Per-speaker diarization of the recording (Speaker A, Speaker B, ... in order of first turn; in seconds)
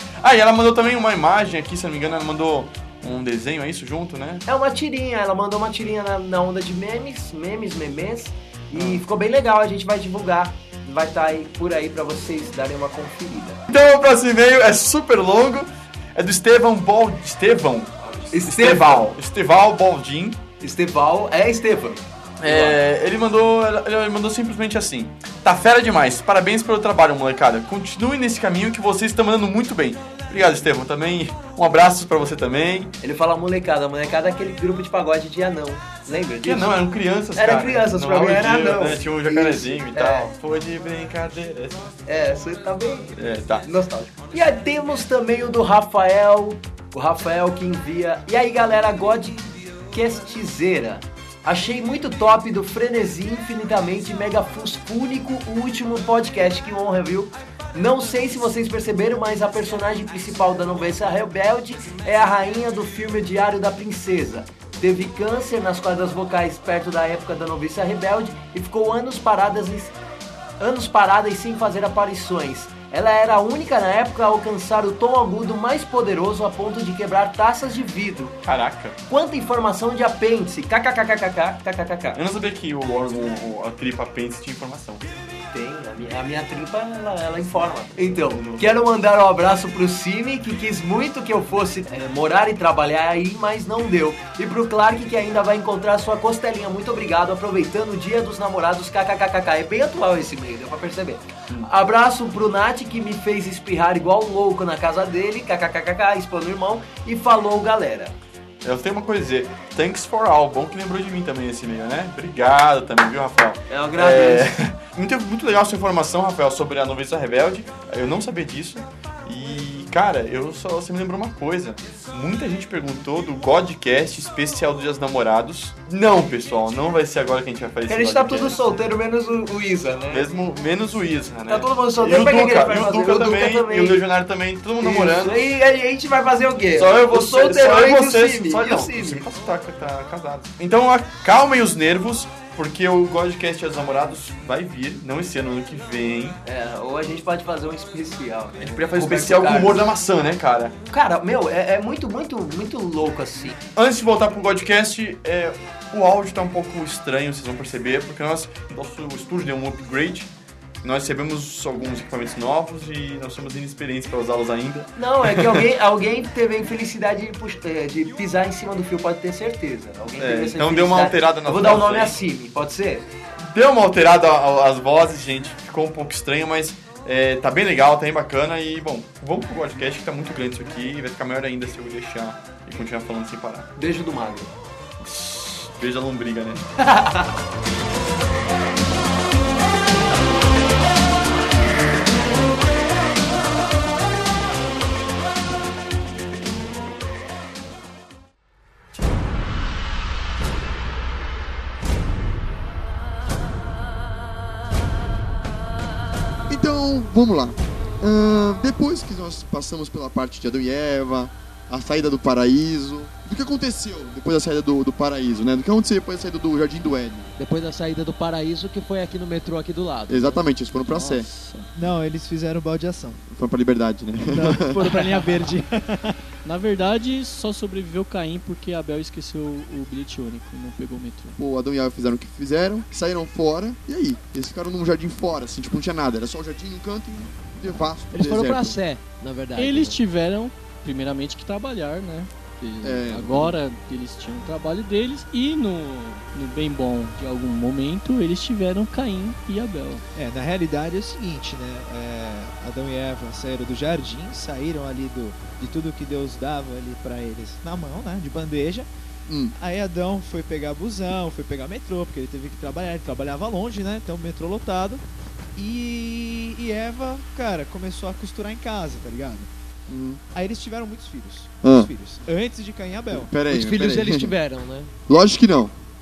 Speaker A: 0.2-4.4, 8.7-9.1, 13.7-20.4, 22.4-32.9, 36.4-41.9, 43.2-43.7, 78.5-79.0, 82.1-85.1, 88.0-88.8, 108.6-128.6, 130.1-135.6, 136.8-146.4, 148.6-150.8, 153.8-160.3, 160.8-165.7, 170.2-172.2, 173.4-183.7, 185.0-186.6
Speaker B: 4.5-13.6, 18.3-19.1, 20.6-22.8, 33.0-40.3, 42.1-70.0, 70.6-78.4, 79.1-82.2, 85.5-108.2, 113.7-114.5, 127.9-130.3, 131.5-134.0, 134.8-139.2, 146.4-149.9, 150.9-153.6, 165.0-173.1, 183.8-184.5, 186.8-187.3
Speaker C: 206.5-217.3, 220.1-221.3, 223.3-225.1, 231.4-238.8, 242.8-243.6, 259.3-259.6, 269.9-270.2, 271.6-271.9, 273.1-274.4, 275.1-275.7
Speaker D: 217.4-220.4, 238.1-240.0, 273.5-274.9
Speaker E: 220.9-221.7, 226.4-231.4, 239.6-250.0
Speaker F: 221.8-223.2, 224.3-226.2, 250.2-258.9, 259.6-265.0, 265.6-269.5, 270.3-273.3